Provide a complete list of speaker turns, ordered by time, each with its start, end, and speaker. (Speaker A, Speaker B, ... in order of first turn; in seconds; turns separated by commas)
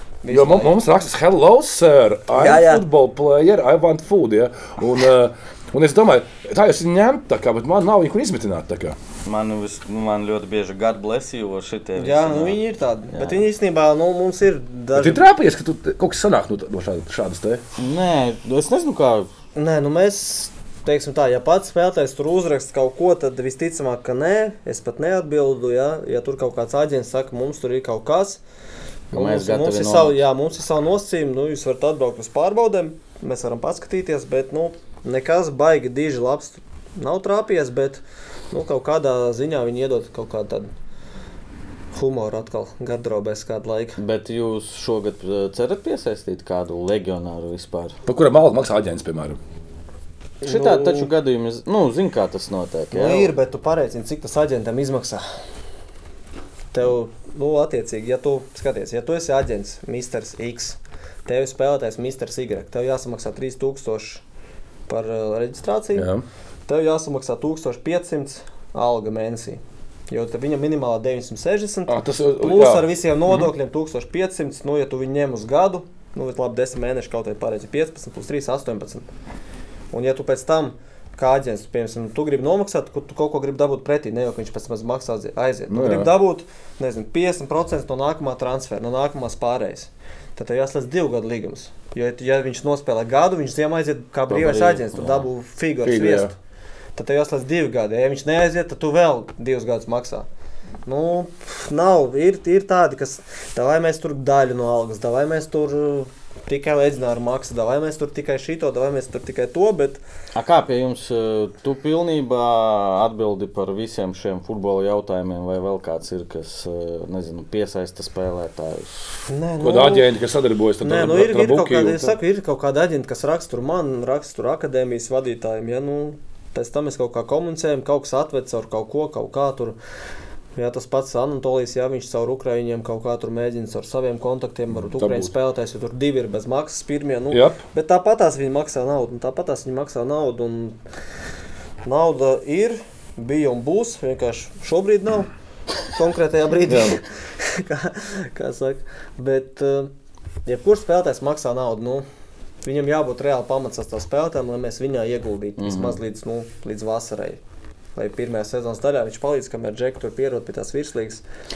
Speaker A: 0.2-0.8, Speaker B: 0.3-9.0, Speaker A: 2.3-2.8, Speaker C: 9.2-12.6, Speaker A: 12.0-15.2, Speaker C: 13.1-13.4, Speaker B: 14.9-17.6, Speaker C: 17.8-19.3, Speaker A: 19.6-28.4, Speaker A: 29.1-40.7, Speaker C: 29.1-30.2, Speaker A: 41.9-44.0, Speaker C: 44.0-48.0, Speaker B: 48.1-49.4, Speaker A: 50.4-51.1, Speaker C: 50.4-53.3, Speaker A: 52.9-55.2, Speaker A: 56.7-64.2, Speaker A: 64.9-66.1, Speaker B: 66.0-66.2, Speaker A: 66.7-79.1, Speaker B: 71.9-73.5, Speaker A: 79.9-96.4, Speaker B: 85.7-86.1, Speaker C: 94.3-95.3, Speaker B: 95.8-96.3, Speaker A: 97.0-100.3, Speaker A: 100.9-110.0, Speaker C: 110.3-119.0, Speaker A: 119.3-120.1, Speaker B: 119.6-122.2, Speaker A: 120.8-129.8, Speaker A: 130.6-140.8, Speaker B: 134.9-135.3, Speaker B: 137.3-137.6, Speaker A: 141.8-145.3, Speaker A: 145.9-149.9, Speaker B: 146.7-146.9, Speaker A: 150.5-152.1, Speaker A: 152.6-157.4, Speaker C: 155.6-156.0, Speaker A: 158.0-161.2